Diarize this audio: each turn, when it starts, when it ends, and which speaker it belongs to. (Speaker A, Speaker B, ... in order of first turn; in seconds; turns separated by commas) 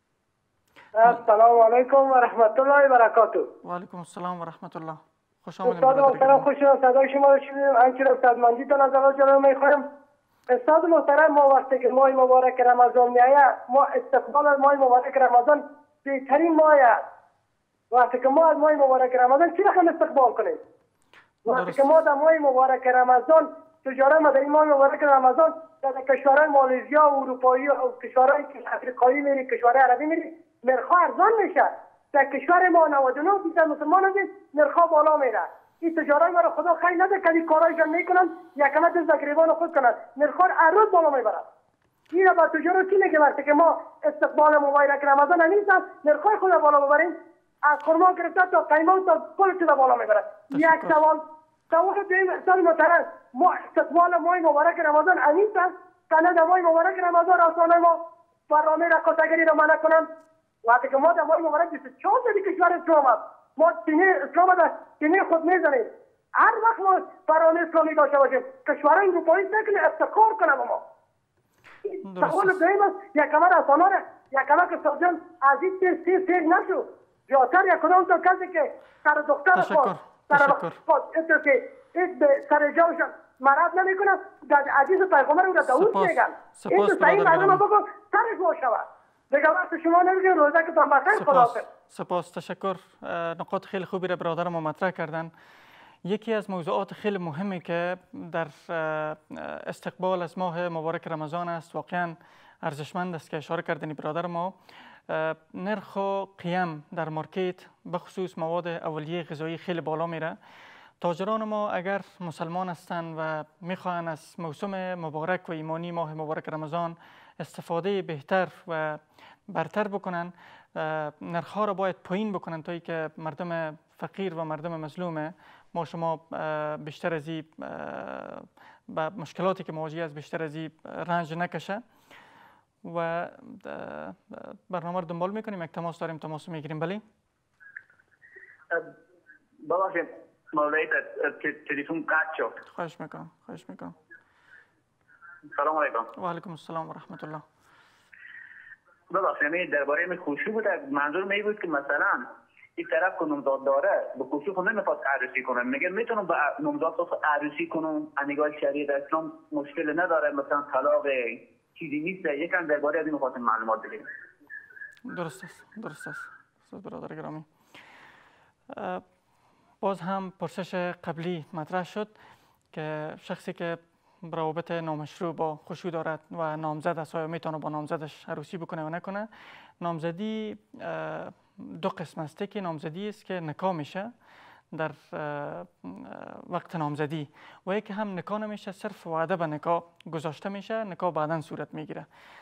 Speaker A: 1.0-3.5, Speaker B: 3.6-6.5, Speaker A: 5.7-9.9, Speaker A: 10.5-17.0, Speaker A: 17.9-20.6, Speaker A: 21.4-41.5, Speaker B: 21.5-22.0, Speaker A: 42.1-60.1, Speaker B: 50.5-51.0, Speaker A: 60.6-70.8, Speaker A: 71.9-91.7, Speaker B: 72.0-72.6, Speaker B: 79.5-80.8, Speaker B: 85.7-87.7, Speaker B: 91.1-95.3, Speaker B: 96.0-104.6, Speaker B: 105.1-110.4, Speaker B: 111.0-131.8, Speaker B: 132.8-137.0, Speaker C: 139.6-142.6, Speaker B: 142.7-144.0, Speaker C: 145.5-146.1, Speaker B: 146.2-147.4, Speaker C: 149.1-152.3, Speaker C: 152.8-164.1, Speaker B: 165.1-167.5, Speaker B: 168.7-169.0, Speaker B: 169.8-172.1, Speaker B: 172.7-179.3, Speaker B: 179.8-184.1, Speaker B: 184.7-192.1